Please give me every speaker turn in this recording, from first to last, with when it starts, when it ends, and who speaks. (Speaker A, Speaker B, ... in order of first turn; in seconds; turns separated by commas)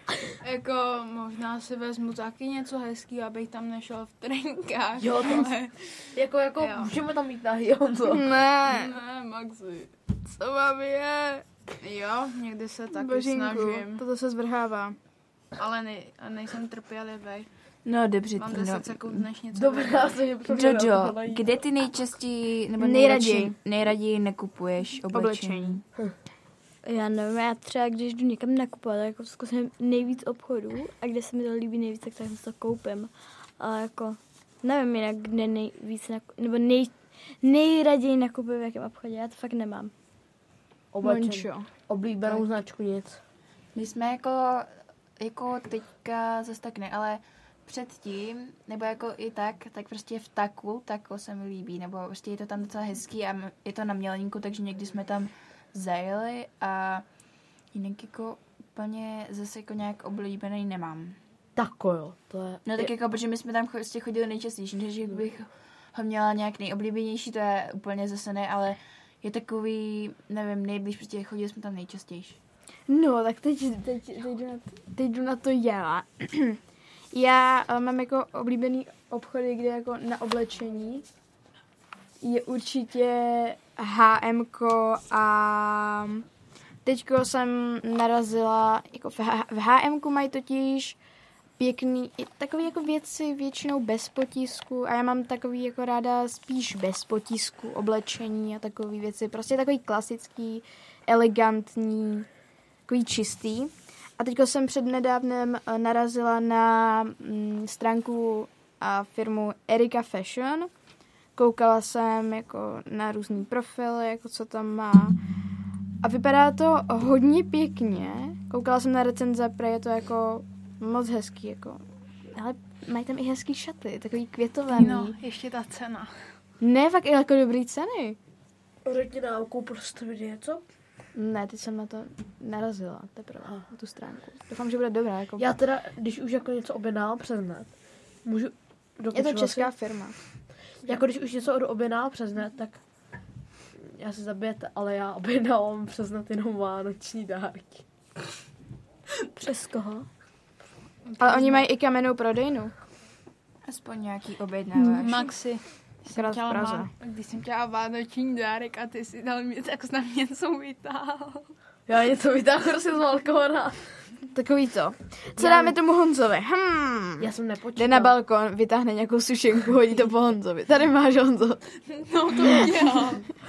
Speaker A: 0.4-6.1, Speaker B: 5.0-5.5, Speaker B: 6.1-8.2, Speaker A: 6.6-6.9, Speaker C: 8.1-8.9, Speaker A: 8.7-9.9, Speaker C: 10.2-11.4, Speaker A: 11.8-14.0, Speaker C: 12.9-15.0, Speaker A: 15.6-17.5, Speaker D: 17.9-19.3, Speaker A: 18.4-20.3, Speaker B: 19.5-21.5, Speaker D: 20.5-25.8, Speaker C: 22.8-23.6, Speaker C: 25.1-25.8, Speaker E: 26.9-39.9, Speaker B: 40.9-43.2, Speaker C: 41.0-41.7, Speaker D: 43.8-44.7, Speaker D: 45.2-57.0, Speaker D: 57.7-61.2, Speaker B: 61.6-62.9, Speaker D: 62.7-72.4, Speaker C: 72.9-76.6, Speaker C: 77.1-81.0, Speaker C: 82.2-86.2, Speaker C: 86.8-91.0, Speaker C: 91.6-102.3, Speaker C: 102.9-110.7, Speaker C: 111.4-115.2, Speaker C: 116.0-125.2, Speaker A: 124.7-126.1, Speaker C: 126.6-128.2, Speaker B: 128.8-130.6, Speaker C: 131.2-135.5, Speaker B: 135.4-137.7, Speaker B: 138.2-139.7, Speaker C: 139.1-140.2, Speaker B: 140.8-142.8, Speaker B: 143.8-147.8, Speaker E: 149.4-150.1, Speaker A: 151.1-151.7, Speaker C: 151.2-152.7, Speaker D: 153.7-155.3, Speaker A: 155.0-161.5, Speaker C: 156.2-156.9, Speaker B: 161.9-163.8, Speaker C: 164.3-171.6, Speaker B: 165.4-165.8, Speaker B: 167.2-168.2, Speaker A: 172.1-173.2, Speaker C: 172.4-172.7, Speaker B: 172.5-172.9